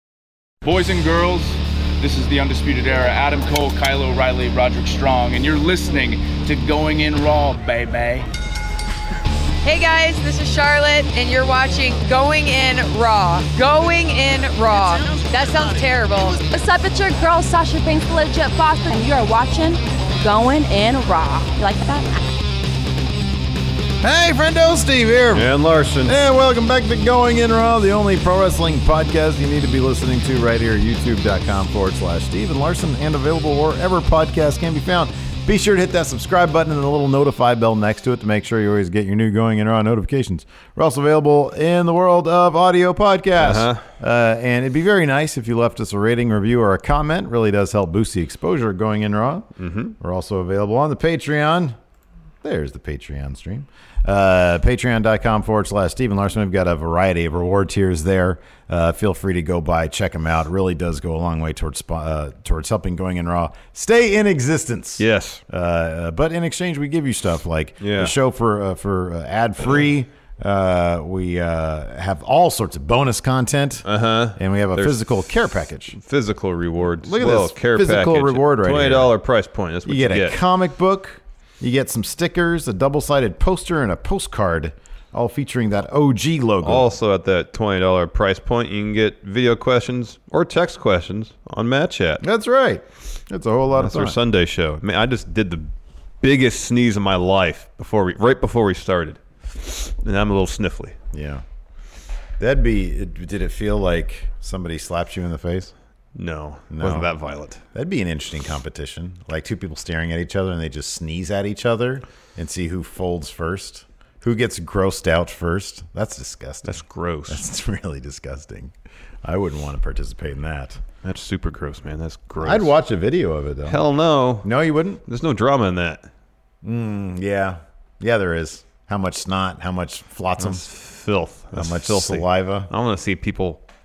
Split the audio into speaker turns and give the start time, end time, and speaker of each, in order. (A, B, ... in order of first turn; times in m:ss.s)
0:00.6-0:08.3 A
0:09.6-0:16.5 B
0:16.5-0:22.2 C
0:24.0-0:25.5 D
0:25.3-0:26.1 E
0:26.0-0:49.5 D
0:43.4-0:43.8 E
0:49.6-0:49.9 E
0:50.0-0:51.8 D
0:52.4-1:16.0 D
1:05.0-1:05.4 E
1:07.8-1:08.1 E
1:13.8-1:15.2 E
1:15.9-1:20.4 E
1:17.0-1:19.1 D
1:19.8-1:26.9 D
1:26.6-1:32.2 E
1:32.2-1:34.2 D
1:33.8-1:35.7 E
1:36.2-1:41.0 E
1:41.1-1:41.4 D
1:42.4-1:45.7 D
1:46.2-1:47.6 E
1:46.7-1:47.1 D
1:47.7-2:00.8 D
1:56.6-1:57.4 E
2:01.0-2:02.7 E
2:02.4-2:03.8 D
2:03.7-2:04.5 E
2:04.4-2:05.0 D
2:05.1-2:06.1 E
2:06.6-2:10.6 D
2:10.4-2:13.6 E
2:11.5-2:12.7 D